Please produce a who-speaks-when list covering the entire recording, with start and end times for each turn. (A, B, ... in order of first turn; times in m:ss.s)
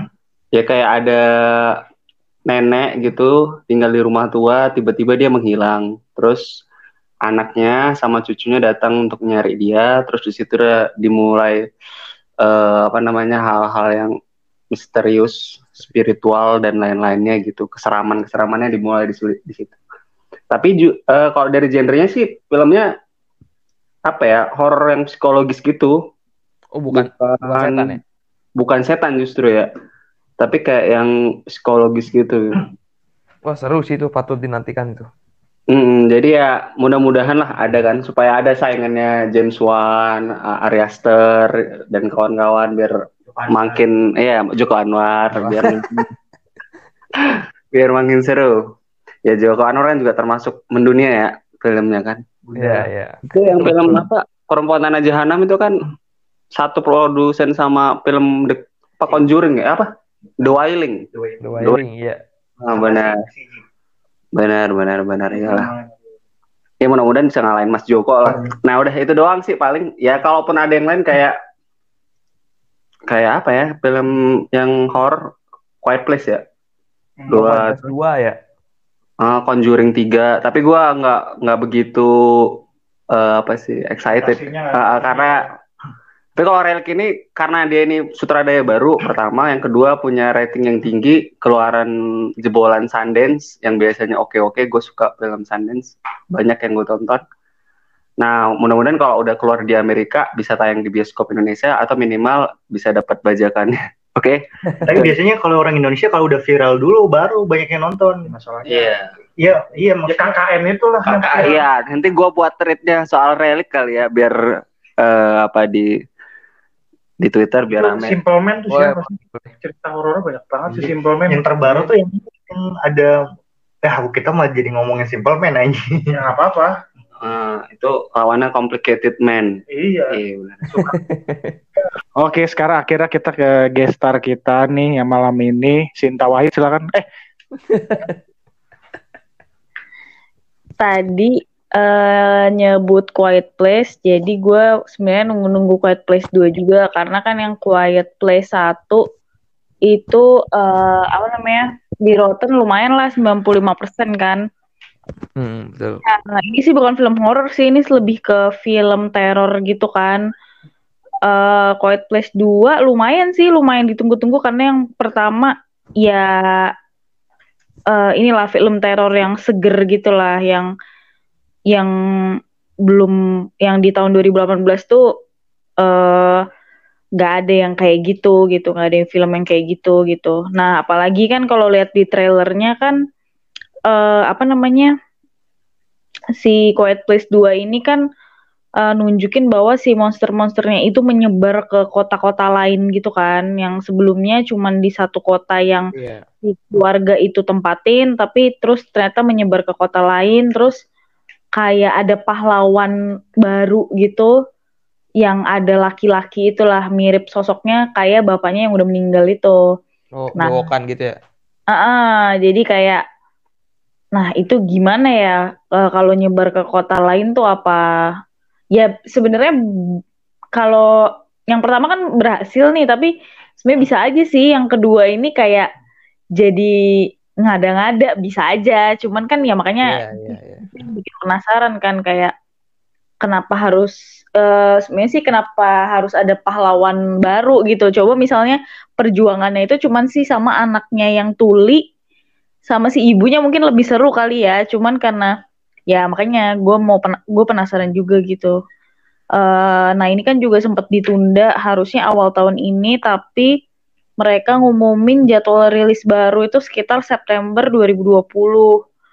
0:00.5-0:01.8 A
0:02.5-0:06.4 A
0:07.2-0:11.6 A
0:12.4-0:14.1 A
0:14.7-0:19.8 A
0:20.5-0:22.8 A
0:24.1-0:25.9 A
0:26.7-0:28.0 B
0:26.9-0:28.0 A
0:28.6-0:29.7 A
0:30.4-0:32.6 A
0:33.4-0:35.1 B
0:35.7-0:42.9 A
0:43.5-0:45.9 A
0:45.4-0:46.0 B
0:47.2-0:48.5 A
0:49.2-0:52.2 A
0:52.5-0:54.0 B
0:53.3-0:55.8 A
0:56.6-0:59.9 A
1:00.4-1:01.0 A
1:01.4-1:02.2 B
1:02.6-1:03.2 A
1:02.7-1:03.5 C
1:04.4-1:05.7 A
1:06.8-1:11.4 A
1:13.1-1:15.2 A
1:15.8-1:16.4 A
1:17.2-1:17.5 D
1:17.3-1:17.8 A
1:17.3-1:18.4 B
1:19.2-1:22.6 A
1:23.1-1:25.4 A
1:24.1-1:25.5 D
1:26.4-1:37.2 A
1:38.2-1:44.4 A
1:44.7-1:45.1 B
1:44.8-1:48.3 C
1:48.3-1:48.9 D
1:48.7-1:49.1 A
1:49.4-1:50.3 C
1:50.1-1:51.6 D
1:51.0-1:54.4 A
1:55.0-1:55.9 A
1:57.2-1:58.2 A
1:57.7-2:01.9 D
1:58.7-1:59.5 B
2:00.7-2:03.1 C
2:03.8-2:06.1 C
2:06.1-2:06.7 D
2:07.2-2:09.5 A
2:09.7-2:10.2 D
2:10.1-2:10.7 A
2:10.7-2:11.0 D
2:10.9-2:11.5 B
2:12.2-2:17.0 D
2:17.7-2:18.2 B
2:20.8-2:29.0 E
2:29.9-2:34.4 E
2:35.4-2:36.0 B
2:36.0-2:40.2 E
2:41.3-2:46.7 E
2:47.9-2:50.7 E
2:52.9-2:55.0 E
2:55.8-2:56.4 E
2:57.2-3:03.0 E
3:03.9-3:04.9 E
3:06.4-3:08.0 E
3:08.8-3:15.9 E
3:16.0-3:16.2 B
3:16.4-3:20.8 E
3:21.6-3:24.3 E
3:25.2-3:29.6 E
3:30.1-3:31.1 B
3:30.4-3:30.7 E
3:31.7-3:33.0 E
3:34.1-3:37.8 E
3:38.8-3:39.6 E
3:40.6-3:40.8 E
3:41.5-3:45.7 E
3:46.4-3:46.7 E
3:47.4-3:52.3 E
3:49.8-3:50.6 B
3:53.2-4:01.8 E
4:02.7-4:05.3 E
4:05.9-4:08.5 E
4:09.4-4:13.5 E
4:14.2-4:18.7 E